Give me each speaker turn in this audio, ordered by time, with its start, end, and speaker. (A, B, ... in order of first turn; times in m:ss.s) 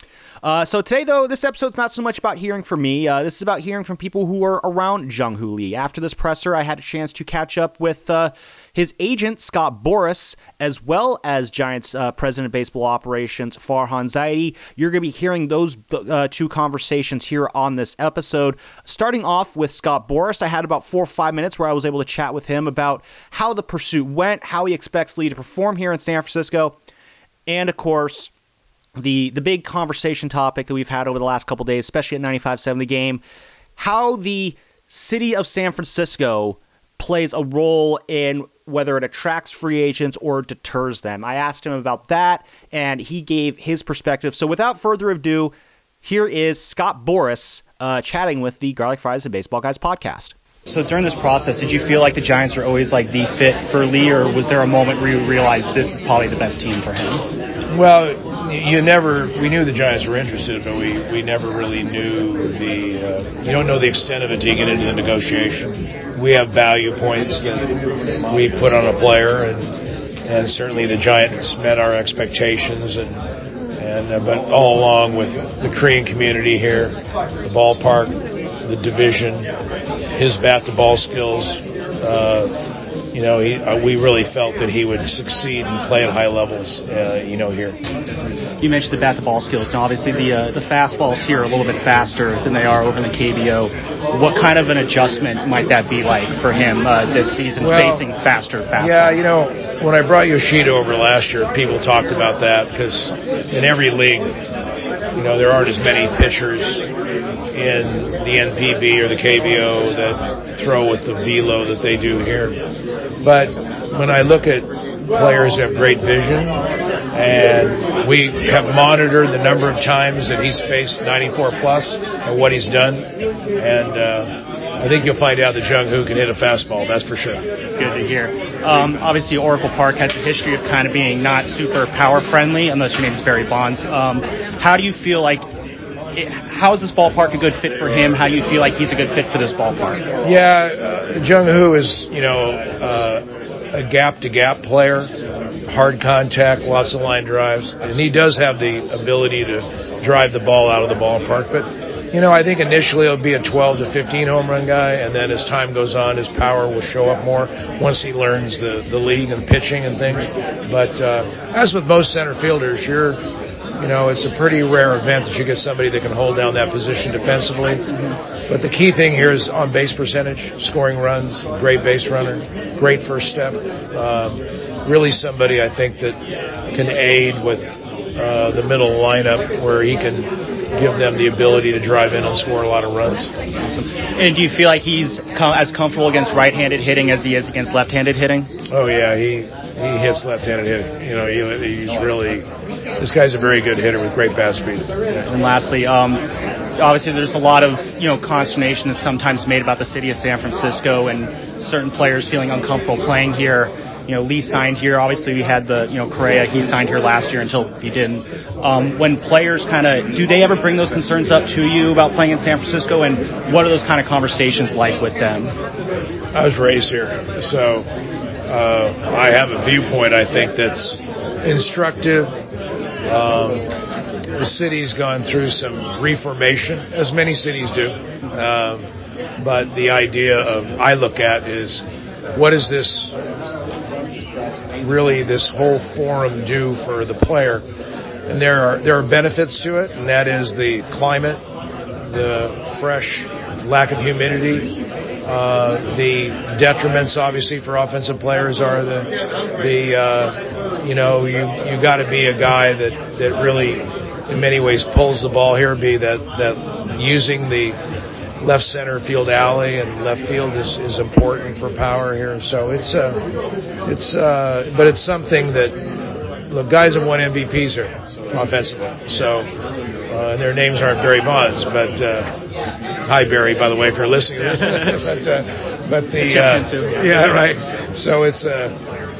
0:00.4-0:26.8 A
0:27.5-0:28.3 A
0:29.0-0:33.2 A
0:33.8-0:50.4 A
0:50.7-0:57.2 B
0:57.7-1:07.7 C
1:08.3-1:09.7 C
1:10.3-1:13.2 C
1:13.8-1:19.5 C
1:20.2-1:22.5 C
1:23.1-1:27.8 C
1:28.6-1:39.2 B
1:37.6-1:38.1 C
1:38.8-1:44.4 C
1:45.1-1:46.8 C
1:47.5-1:52.6 C
1:53.2-1:56.6 C
1:57.1-2:03.1 C
2:03.6-2:07.4 C
2:07.8-2:15.5 B
2:16.2-2:20.0 B
2:20.2-2:25.1 C
2:25.7-2:43.2 C
2:43.8-2:47.8 C
2:48.5-2:56.2 C
2:56.7-2:57.6 C
2:58.2-3:03.3 C
3:03.6-3:08.5 B
3:08.7-3:12.5 C
3:13.0-3:14.9 C
3:15.2-3:16.2 B
3:16.8-3:35.6 B
3:36.3-3:37.9 C
3:38.5-3:42.3 C
3:43.1-3:43.7 C
3:44.4-3:48.9 C
3:49.4-3:53.1 C
3:54.8-3:57.6 C
3:58.3-4:01.4 C
4:02.0-4:04.7 C
4:05.3-4:17.8 C
4:18.4-4:23.2 C
4:23.9-4:25.8 C
4:26.5-4:29.5 C
4:30.1-4:32.3 C
4:33.1-4:38.8 C
4:36.2-4:37.4 B